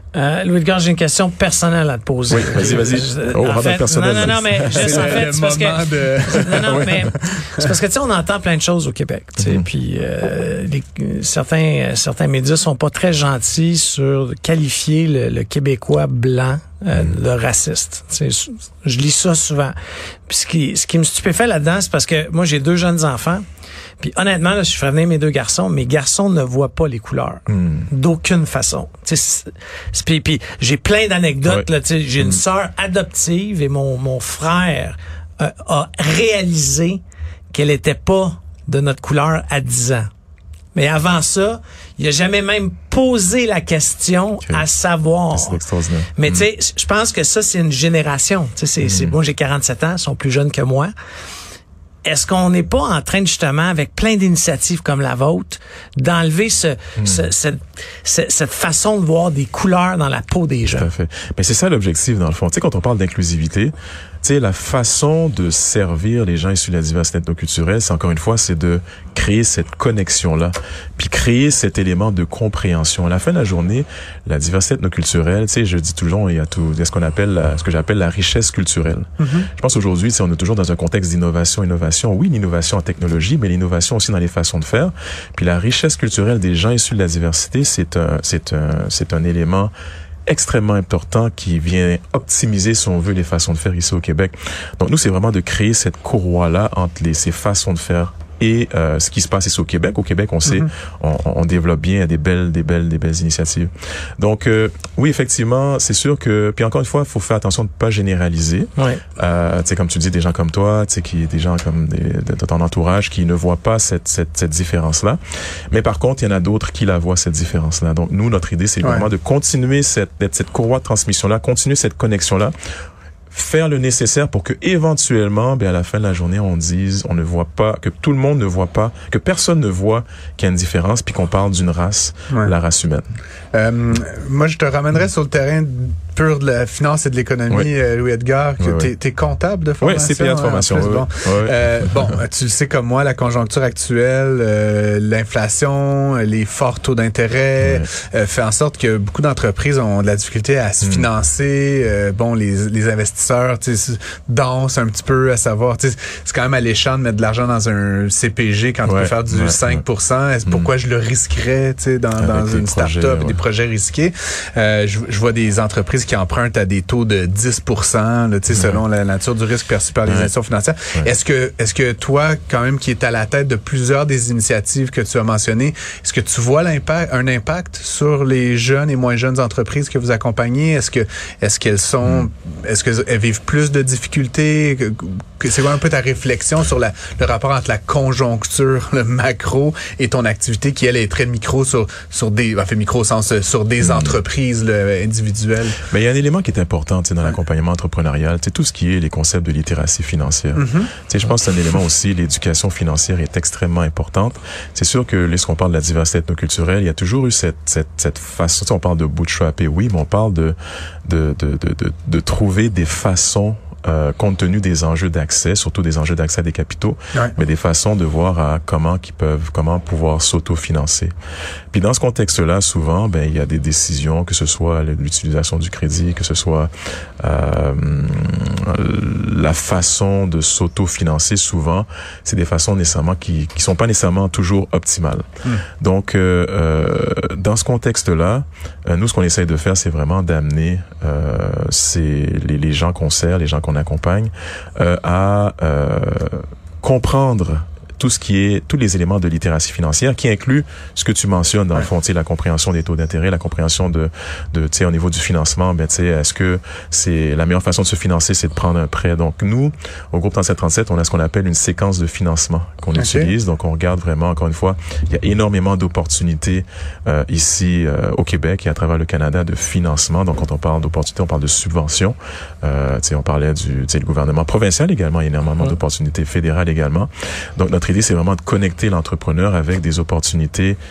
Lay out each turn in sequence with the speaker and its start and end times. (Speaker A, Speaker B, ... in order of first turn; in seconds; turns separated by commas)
Speaker A: 0.1-19.8, Speaker B: 2.3-5.2, Speaker C: 4.8-6.6, Speaker B: 6.6-7.1, Speaker B: 9.4-9.7, Speaker A: 20.3-23.4, Speaker A: 24.0-37.0, Speaker B: 27.5-27.9, Speaker A: 37.5-40.1, Speaker A: 40.8-45.6, Speaker B: 45.3-46.5, Speaker A: 46.1-50.9, Speaker B: 48.8-49.2, Speaker A: 52.0-60.9, Speaker B: 57.0-57.3, Speaker B: 60.7-89.7, Speaker C: 79.2-79.5, Speaker B: 90.3-115.2, Speaker A: 108.8-109.0, Speaker B: 115.7-122.5, Speaker C: 118.8-119.1, Speaker B: 123.3-133.1, Speaker C: 133.5-195.8, Speaker B: 138.6-138.9, Speaker B: 139.8-142.2, Speaker B: 147.6-147.9, Speaker B: 150.8-151.1, Speaker B: 158.8-159.8, Speaker B: 160.5-160.7, Speaker B: 162.2-163.4, Speaker B: 168.5-168.8, Speaker B: 170.1-170.3, Speaker B: 193.8-194.2, Speaker B: 195.9-221.1, Speaker C: 200.6-200.9, Speaker B: 221.7-235.3, Speaker B: 235.8-280.8, Speaker C: 262.9-263.3